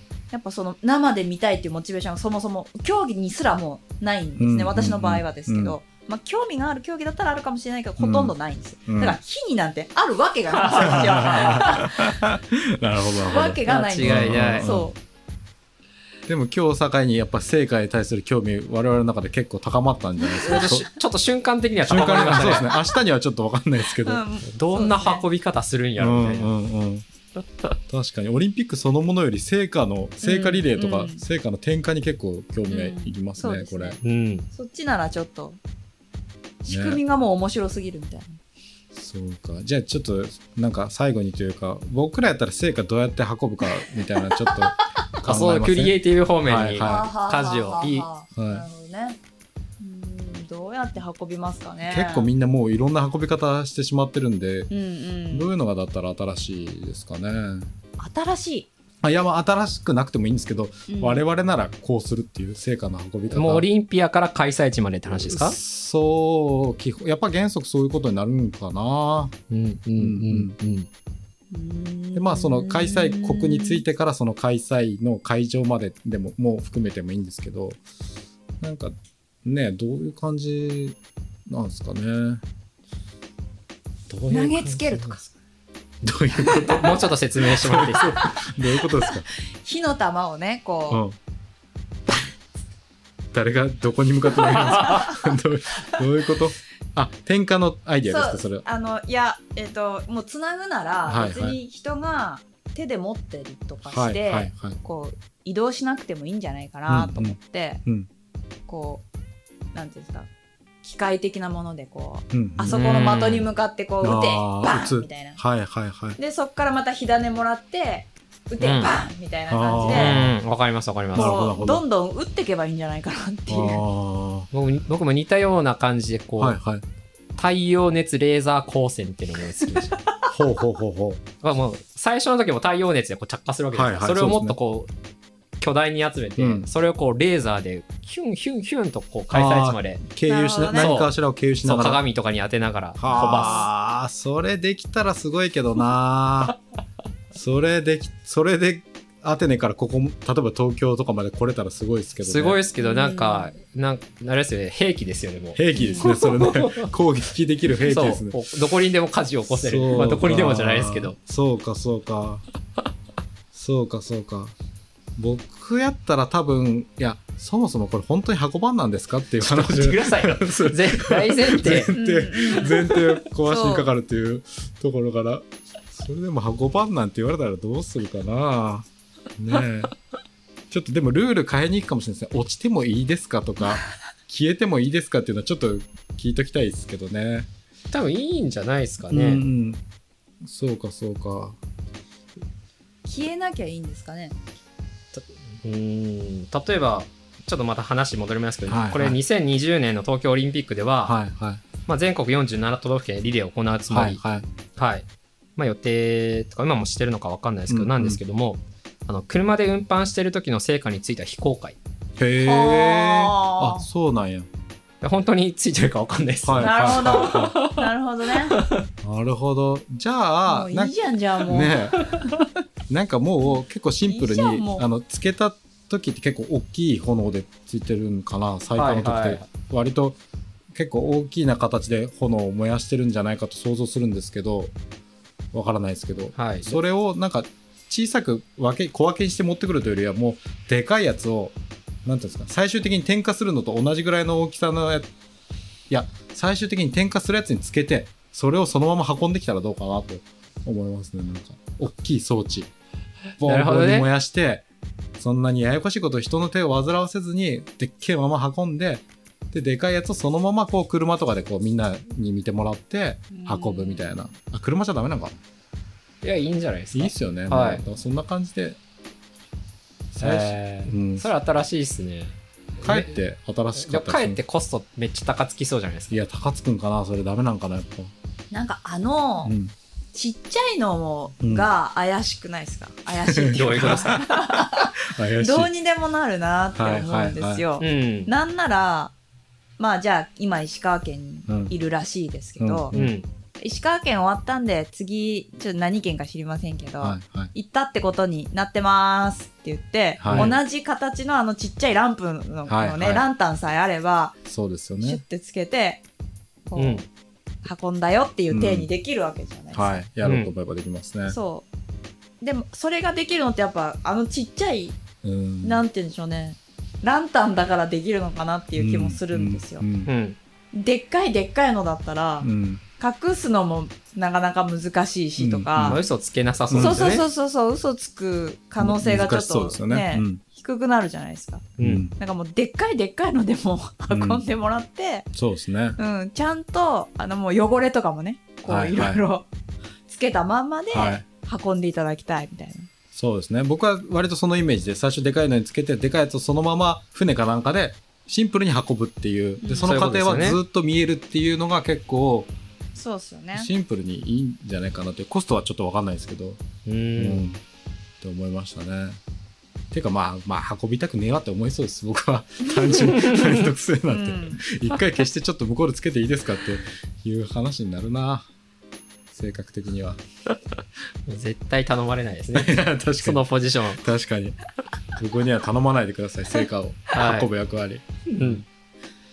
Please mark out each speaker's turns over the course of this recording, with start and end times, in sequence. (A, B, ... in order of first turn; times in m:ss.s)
0:00.3-0:12.2 A
0:04.4-0:05.8 B
0:08.0-0:08.4 B
0:08.9-0:09.2 B
0:10.6-0:11.6 C
0:10.8-0:14.9 B
0:13.2-0:15.0 A
0:13.6-0:14.7 C
0:16.3-0:20.9 B
0:20.2-0:20.9 A
0:20.4-0:22.7 C
0:21.8-0:24.2 B
0:24.0-0:25.2 A
0:24.5-0:26.5 C
0:26.0-0:27.0 B
0:27.9-0:34.0 B
0:30.2-0:31.2 A
0:32.7-0:34.0 A
0:34.0-0:34.5 C
0:34.5-0:35.6 A
0:36.6-0:38.4 A
0:36.7-0:37.0 B
0:38.9-0:47.1 B
0:44.4-0:44.8 A
0:45.2-0:48.1 C
0:46.8-0:49.2 A
0:48.4-0:48.6 B
0:49.8-0:52.3 A
0:51.9-0:54.7 B
0:54.7-0:55.5 A
0:55.3-0:57.7 B
0:58.0-0:58.7 A
0:59.0-1:03.6 B
1:00.9-1:01.2 A
1:03.3-1:05.6 C
1:05.1-1:09.4 B
1:09.5-1:10.9 C
1:10.0-1:10.5 B
1:11.5-1:13.8 A
1:12.1-1:17.8 B
1:18.6-1:21.0 B
1:21.5-1:22.4 B
1:24.1-1:25.2 C
1:24.3-1:25.3 A
1:26.0-1:29.2 B
1:26.5-1:28.4 C
1:28.9-1:31.0 A
1:30.9-1:31.2 B
1:33.3-1:38.6 B
1:34.5-1:35.1 C
1:34.8-1:35.1 A
1:38.0-1:47.8 A
1:41.1-1:41.6 B
1:43.9-1:44.8 B
1:46.9-1:48.1 B
1:48.7-1:49.0 A
1:49.7-1:50.3 A
1:50.8-1:55.4 A
1:52.3-1:52.8 B
1:52.7-1:53.5 C
1:54.0-1:56.2 B
1:56.2-2:00.2 A
1:58.6-1:58.9 C
1:59.5-2:00.4 B
1:59.9-2:01.4 C
2:01.1-2:01.8 B
2:01.1-2:03.8 A
2:03.5-2:04.5 B
2:04.5-2:06.6 C
2:06.4-2:06.8 B
2:07.4-2:10.0 C
2:09.8-2:10.2 A
2:10.3-2:11.2 B
2:11.4-2:14.9 C
2:13.7-2:14.6 B
2:15.6-2:20.0 C
2:16.4-2:16.7 B
2:19.3-2:22.0 B
2:20.2-2:20.9 A
2:20.7-2:23.6 C
2:23.0-2:26.6 B
2:23.0-2:23.7 A
2:27.3-2:32.6 B
2:32.2-2:36.9 C
2:32.8-2:33.6 A
2:35.6-2:38.4 B
2:35.7-2:36.1 A
2:37.8-2:41.1 C
2:39.5-2:42.4 B
2:43.5-2:44.5 B
2:45.2-2:58.9 B
2:49.4-2:51.9 C
2:51.9-2:53.9 A
2:59.4-2:59.9 B
3:00.7-3:07.5 B
3:07.9-3:09.4 C
3:09.1-3:09.8 B
3:10.4-3:11.6 B
3:13.0-3:14.4 A
3:15.1-3:21.2 C
3:18.7-3:19.2 B
3:21.0-3:21.6 B
3:21.9-3:24.2 C
3:23.9-3:24.4 B
3:24.8-3:25.1 C
3:25.6-3:31.8 C
3:27.7-3:28.2 B
3:32.2-3:34.5 B
3:32.4-3:33.9 A
3:35.0-3:38.9 C
3:36.4-3:37.6 B
3:36.6-3:38.6 A
3:39.0-3:42.1 B
3:40.4-3:42.5 A
3:42.9-3:50.2 B
3:44.1-3:44.9 A
3:48.8-3:49.5 C
3:50.7-3:54.7 B
3:55.5-4:05.1 B
3:56.4-3:56.8 C
4:05.9-4:12.7 B
4:13.4-4:14.6 B
4:13.4-4:14.1 C
4:15.2-4:25.4 B
4:23.3-4:24.2 A
4:26.2-4:27.8 C
4:26.9-4:28.8 B
4:30.1-4:31.3 B
4:30.2-4:33.1 C
4:32.8-4:34.4 B
4:33.7-4:36.2 C
4:36.1-4:38.1 B
4:38.5-4:39.5 A
4:39.4-4:39.7 B
4:40.1-4:49.1 A
4:41.4-4:41.7 B
4:43.3-4:45.7 B
4:43.5-4:44.3 C
4:46.8-4:47.6 B
4:47.8-4:48.3 C
4:49.8-4:52.9 A
4:51.5-4:51.7 B
4:52.6-4:53.1 B
4:52.9-4:53.2 C
4:53.6-5:04.4 A
4:57.0-4:57.5 B
5:00.2-5:00.6 B
5:00.3-5:00.6 C
5:02.7-5:03.2 B
5:04.4-5:05.2 B
5:05.0-5:06.0 A
5:06.7-5:07.0 A
5:06.8-5:07.1 C
5:07.6-5:10.0 A
5:08.5-5:08.9 B
5:09.7-5:11.4 B
5:10.2-5:10.5 C
5:11.3-5:11.6 A
5:12.4-5:15.0 A
5:15.2-5:15.8 B
5:15.6-5:19.8 A
5:18.8-5:20.1 B
5:20.1-5:20.4 C
5:20.7-5:26.0 A
5:22.4-5:22.8 B
5:25.4-5:26.0 B
5:25.8-5:27.2 C
5:26.7-5:27.1 B
5:26.8-5:35.3 A
5:28.8-5:30.4 B
5:31.8-5:32.1 B
5:34.1-5:34.4 B
5:35.3-5:36.0 B
5:36.0-5:39.5 A
5:38.7-5:39.2 B
5:40.1-5:42.9 A
5:40.9-5:41.2 B
5:43.1-5:52.5 B
5:49.6-5:49.9 A
5:49.7-5:50.6 C
5:52.9-5:53.7 A
5:53.6-5:56.6 B
5:56.8-5:57.4 C
5:57.2-5:57.6 B
5:58.2-5:59.2 B
5:59.9-6:08.5 B
6:03.0-6:03.6 C
6:04.1-6:04.6 A
6:09.3-6:10.2 B
6:11.3-6:14.0 C
6:12.5-6:14.6 B
6:15.2-6:18.6 B
6:17.1-6:17.5 C
6:18.3-6:18.6 C